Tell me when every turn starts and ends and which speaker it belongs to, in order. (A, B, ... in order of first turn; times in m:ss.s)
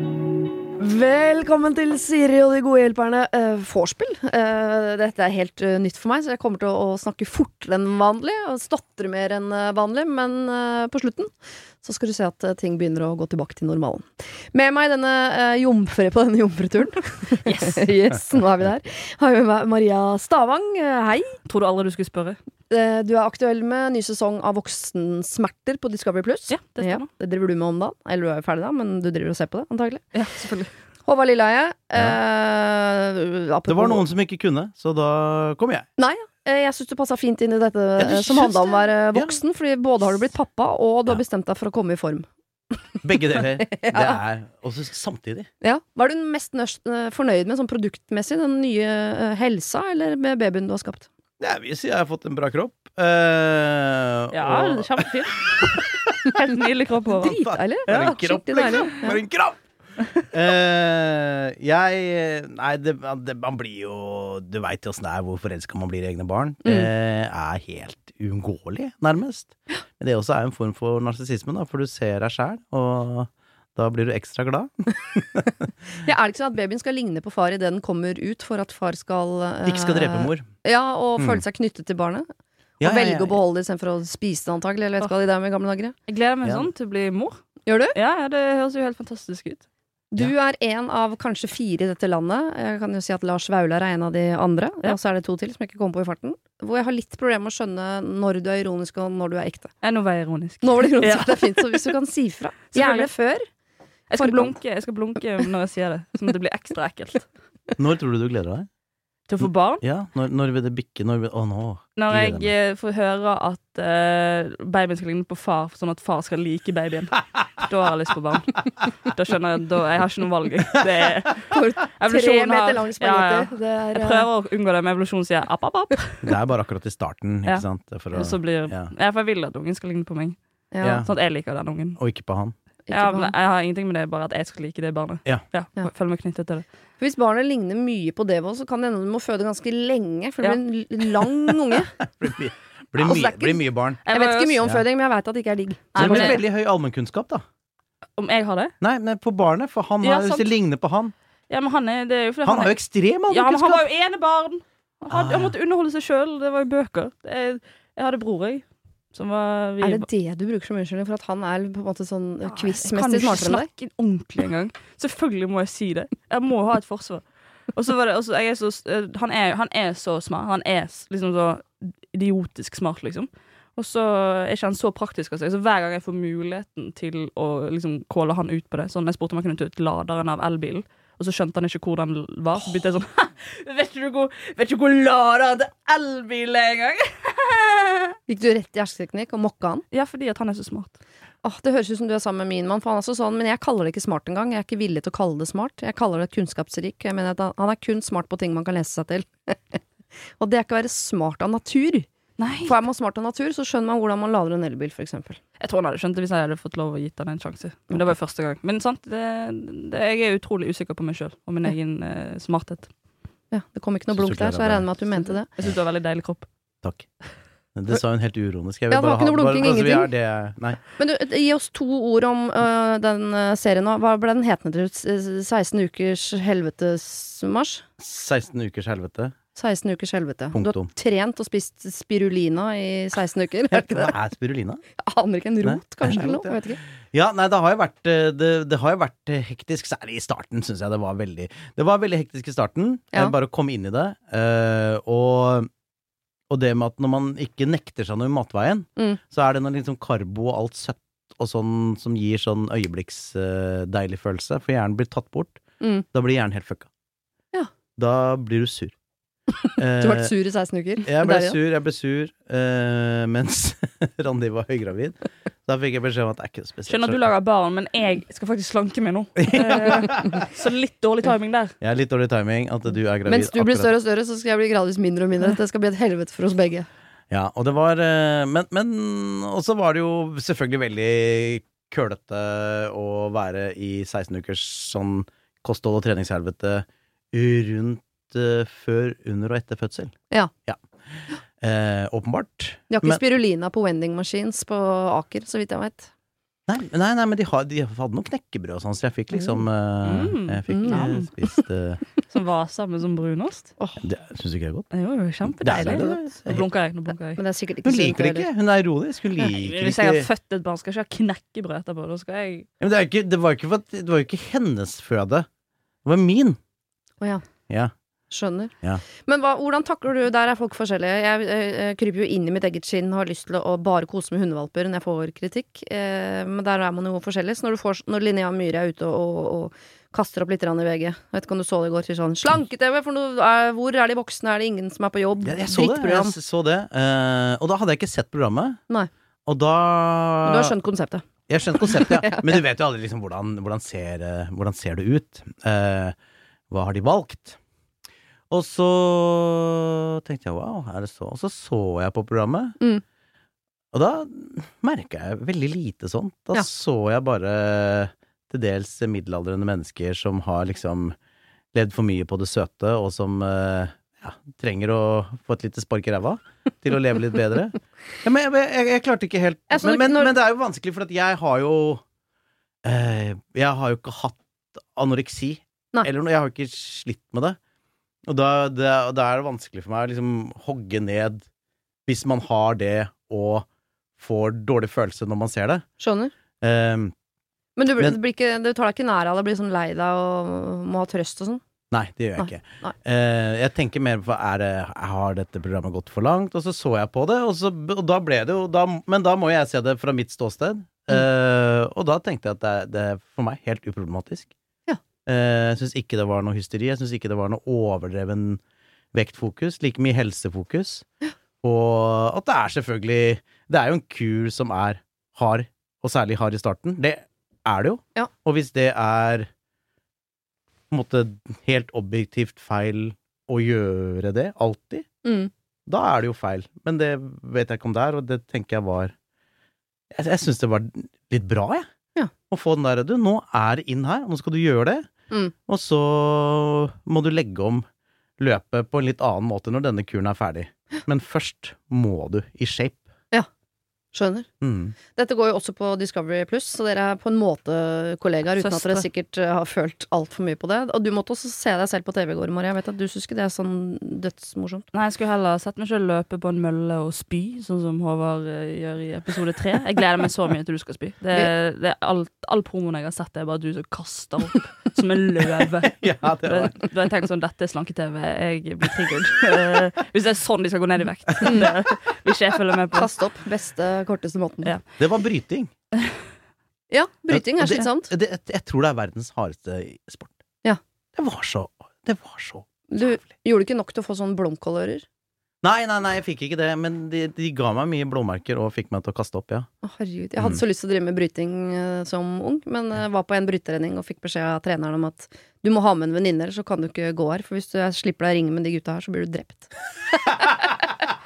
0:00.8-0:11.3 A
0:11.8-0:21.4 A
0:17.4-0:17.9 B
0:21.4-0:22.4 B
0:22.7-0:30.0 A
0:26.5-0:27.1 B
0:30.1-0:30.7 B
0:31.0-0:34.0 A
0:33.7-0:35.8 C
0:36.0-0:42.3 A
0:38.0-0:39.4 C
0:43.0-0:45.5 C
0:43.4-0:44.2 A
0:45.6-0:51.1 A
0:51.4-0:55.1 C
0:54.3-0:57.4 B
0:55.6-0:56.1 C
0:57.2-0:59.2 A
0:57.2-0:59.6 C
0:57.9-0:58.9 B
1:00.3-1:15.5 C
1:16.0-1:22.2 A
1:19.6-1:20.4 C
1:21.2-1:21.4 C
1:22.8-1:23.4 C
1:22.8-1:25.9 A
1:26.1-1:27.4 B
1:26.4-1:26.7 C
1:27.6-1:28.0 A
1:27.9-1:29.6 B
1:30.1-1:39.7 A
1:39.8-1:41.9 B
1:40.6-1:43.4 A
1:42.7-1:43.1 B
1:44.1-1:47.3 B
1:44.2-1:44.5 A
1:47.8-1:48.7 C
1:49.3-1:49.8 B
1:49.4-1:52.5 C
1:52.0-2:06.3 B
2:01.5-2:04.3 A
2:06.2-2:08.9 C
2:07.4-2:10.4 B
2:10.7-2:11.0 A
2:10.8-2:11.1 C
2:10.9-2:12.0 B
2:12.0-2:12.5 C
2:12.9-2:13.3 A
2:12.9-2:16.6 B
2:17.0-2:22.0 A
2:22.2-2:24.0 C
2:23.0-2:26.4 A
2:24.0-2:24.6 B
2:25.9-2:26.4 B
2:26.0-2:27.4 C
2:28.2-2:28.7 B
2:28.8-2:31.1 C
2:30.0-2:30.5 B
2:31.5-2:40.1 B
2:32.4-2:33.8 C
2:35.1-2:35.6 C
2:39.8-2:43.7 A
2:42.4-3:08.2 B
3:08.3-3:09.8 A
3:09.9-3:11.0 B
3:11.4-3:19.8 A
3:20.4-3:22.1 A
3:22.4-3:22.7 B
3:22.6-3:25.4 A
3:25.6-3:32.9 B
3:33.5-3:35.5 A
3:34.1-3:34.9 C
3:35.5-3:36.4 B
3:37.7-3:40.8 C
3:38.9-3:40.1 A
3:41.0-3:47.8 A
3:48.0-3:49.3 C
3:49.5-3:54.1 A
3:50.5-3:50.9 C
3:53.7-3:54.8 C
3:55.0-3:56.8 A
3:55.6-4:05.7 C
4:06.5-4:15.6 C
4:16.1-4:16.9 C
4:18.0-4:18.9 C
4:19.6-4:21.6 A
4:19.8-4:20.3 C
4:21.0-4:25.1 C
4:25.6-4:27.2 C
4:26.9-4:31.7 B
4:29.4-4:30.4 C
4:31.8-4:33.9 C
4:33.2-4:36.9 A
4:37.3-4:50.1 C
4:51.6-4:53.2 C
4:52.9-4:56.1 A
4:56.7-5:02.0 C
5:00.0-5:01.3 B
5:00.7-5:01.5 A
5:02.3-5:03.7 B
5:04.0-5:04.9 C
5:04.9-5:07.4 B
5:05.5-5:06.6 C
5:07.3-5:08.5 A
5:07.8-5:10.3 C
5:09.4-5:12.7 B
5:12.8-5:15.4 C
5:16.0-5:16.6 C
5:18.3-5:36.4 A
5:35.4-5:38.8 C
5:39.5-5:40.7 C
5:40.4-5:41.2 A
5:41.5-5:46.1 C
5:41.8-5:42.5 A
5:46.7-5:47.6 C
5:48.5-5:52.8 C
5:53.9-6:01.1 C
6:01.7-6:12.0 C
6:09.7-6:10.3 A
6:12.8-6:17.6 C
6:18.3-6:21.4 C
6:22.0-6:23.6 C
6:24.2-6:25.8 C
6:26.0-6:26.3 A
6:26.6-6:27.1 C
6:27.8-6:31.6 A
6:31.9-6:44.5 C
6:32.4-6:32.9 A
6:45.2-6:48.6 C
6:49.1-6:51.0 C
6:51.6-6:59.5 C
7:00.9-7:05.0 C
7:05.2-7:05.5 A
7:05.9-7:09.1 C
7:10.1-7:11.8 C
7:12.5-7:15.1 C
7:15.7-7:17.8 C
7:18.4-7:23.0 C
7:24.1-7:24.5 A
7:24.6-7:25.0 C
7:25.1-7:34.8 A
7:28.6-7:29.0 B
7:34.9-7:53.1 B
7:45.8-7:46.7 C
7:51.4-7:51.7 A
7:52.9-7:54.7 A
7:55.0-7:55.7 C
7:56.9-7:58.1 A
7:57.3-8:00.4 C
8:01.2-8:03.0 C
8:02.9-8:05.0 A
8:05.6-8:09.7 C
8:09.8-8:20.8 A
8:10.4-8:10.6 C